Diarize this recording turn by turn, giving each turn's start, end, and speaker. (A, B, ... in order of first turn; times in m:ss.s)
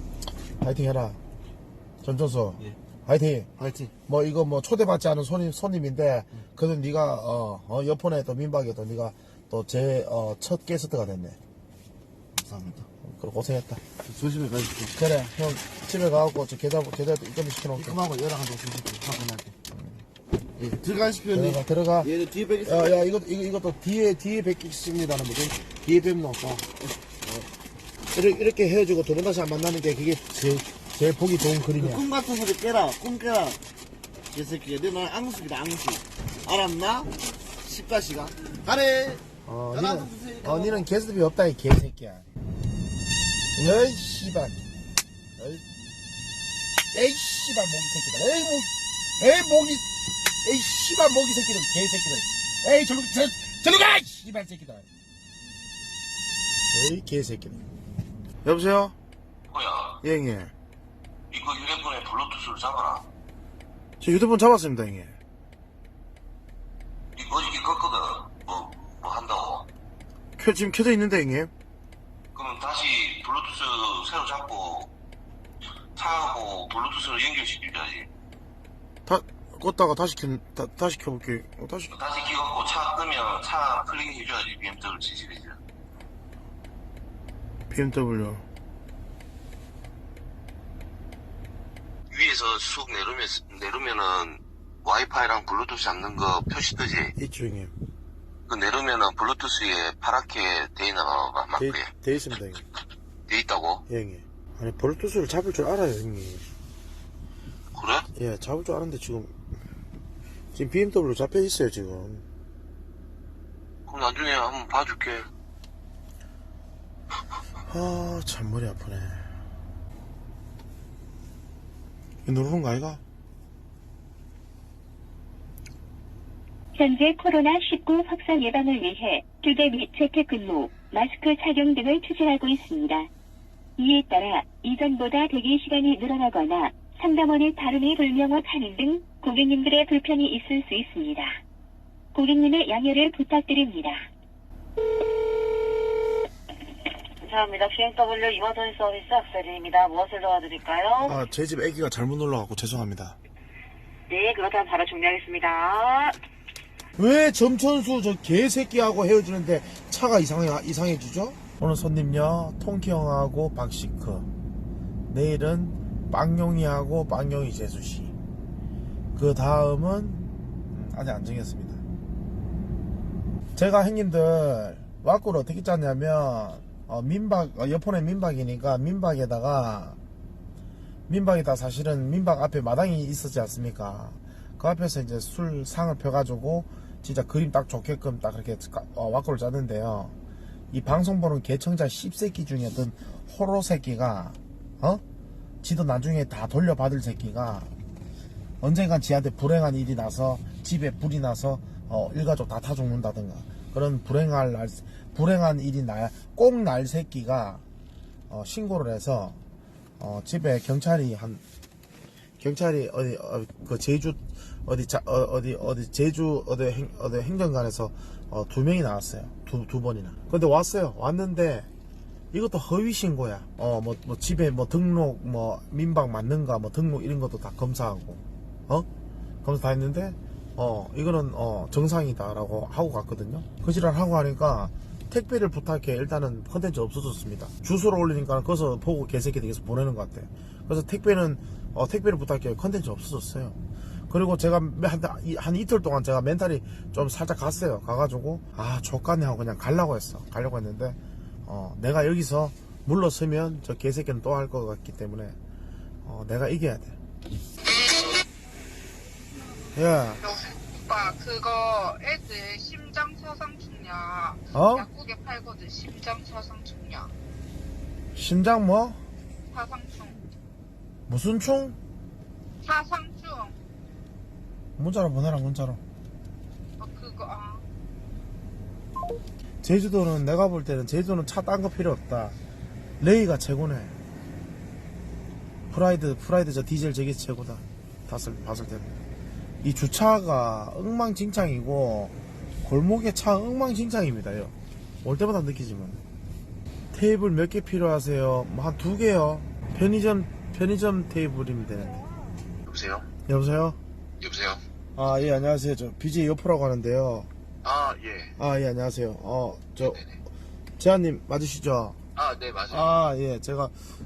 0:00.6-0:01.2 A
0:02.0-0:11.4 A
0:03.6-0:03.9 B
0:12.4-0:12.8 B
0:13.0-0:13.8 A
0:14.0-0:14.9 B
0:14.9-0:18.0 A
0:17.8-0:19.5 B
0:19.7-0:20.0 A
0:20.6-0:23.0 B
0:21.3-0:26.7 A
0:27.2-0:27.5 B
0:28.1-0:32.1 A
0:31.8-0:33.6 B
0:34.3-0:40.8 B
0:39.4-0:42.3 A
0:43.5-0:44.6 A
0:45.4-0:45.6 A
0:46.9-0:54.8 A
0:56.7-0:57.6 A
0:58.4-0:59.0 A
0:59.5-1:00.0 C
1:00.0-1:00.5 A
1:01.3-1:03.0 C
1:04.0-1:05.2 A
1:07.2-1:09.7 C
1:10.4-1:11.5 A
1:12.3-1:14.9 C
1:15.9-1:18.1 C
1:19.0-1:21.9 A
1:21.9-1:25.6 C
1:27.7-1:28.5 A
1:32.1-1:37.1 C
1:37.1-1:37.7 A
1:38.5-1:41.9 C
1:41.5-1:42.6 A
1:43.3-1:43.8 C
1:43.9-1:46.5 A
1:47.7-1:48.0 C
1:48.1-1:49.3 A
1:50.5-1:52.2 A
1:53.9-1:55.3 C
1:57.6-1:59.3 A
2:02.2-2:03.0 A
2:06.7-2:13.1 D
2:13.8-2:21.3 D
2:22.1-2:24.0 D
2:27.2-2:31.2 E
2:31.0-2:33.2 A
2:34.1-2:36.2 E
2:37.0-2:44.3 A
2:45.1-2:48.1 A
2:49.1-2:51.8 A
2:53.6-3:00.0 A
3:01.1-3:10.1 A
3:10.7-3:15.0 A
3:15.6-3:17.7 A
3:18.6-3:27.6 A
3:28.3-3:29.4 A
3:30.0-3:31.4 A
3:32.4-3:41.7 A
3:42.3-3:48.9 A
3:49.4-4:03.6 A
4:04.1-4:15.4 A
4:16.0-4:17.0 A
4:19.7-4:20.2 A
4:20.2-4:27.1 F
4:24.5-4:24.9 A
4:28.1-4:29.0 A
4:29.5-4:30.2 F
4:31.1-4:31.8 A
4:32.6-4:33.6 F
4:34.8-4:35.8 A
4:36.8-4:37.6 F
4:39.6-4:42.4 A
4:43.0-4:44.0 A
4:45.7-4:49.0 A
4:49.6-4:56.0 A
4:56.9-5:02.0 A
5:02.7-5:03.0 C
5:03.3-5:03.8 A
5:05.0-5:07.3 A
5:07.6-5:08.3 C
5:08.4-5:10.1 A
5:09.8-5:10.1 C
5:10.8-5:12.0 A
5:12.2-5:12.9 C
5:12.7-5:13.8 A